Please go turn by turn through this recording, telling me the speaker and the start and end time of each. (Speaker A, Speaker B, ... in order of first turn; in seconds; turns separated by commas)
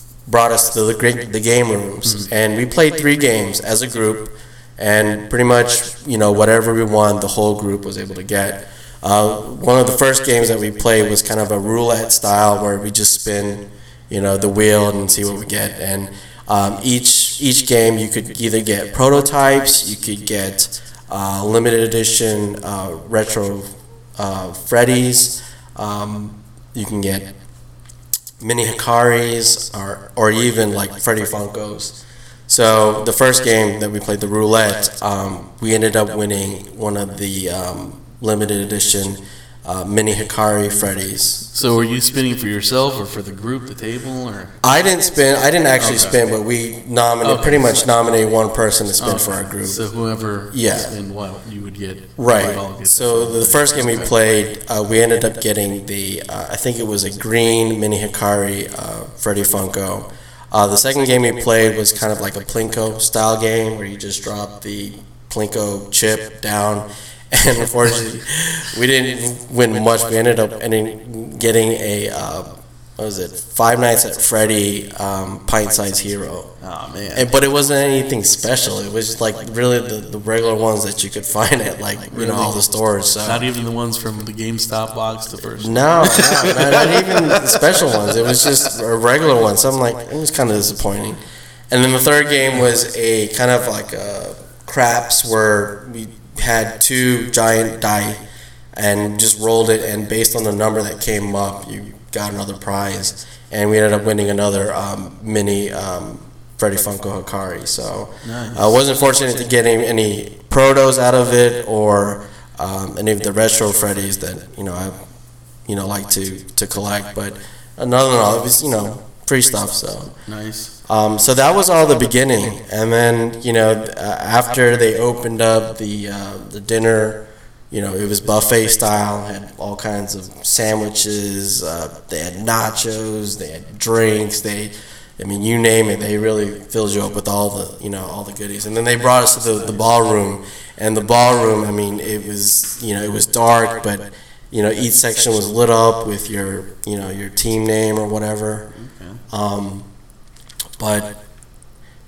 Speaker A: 0.2-27.3, Speaker A: 28.4-32.0, Speaker A: 32.5-41.5, Speaker B: 41.5-44.5, Speaker A: 44.6-49.9, Speaker B: 45.8-46.2, Speaker B: 47.2-47.9, Speaker B: 49.0-54.1, Speaker A: 50.5-51.0, Speaker A: 52.2-76.5, Speaker B: 76.6-77.3, Speaker A: 77.1-83.5, Speaker B: 82.1-82.6, Speaker B: 83.2-87.8, Speaker A: 85.6-91.2, Speaker A: 91.7-98.2, Speaker A: 98.7-115.0, Speaker B: 108.2-108.7, Speaker A: 115.6-120.1, Speaker B: 120.3-120.7, Speaker A: 120.8-148.7, Speaker B: 148.7-149.2, Speaker A: 149.3-149.9, Speaker A: 150.8-151.2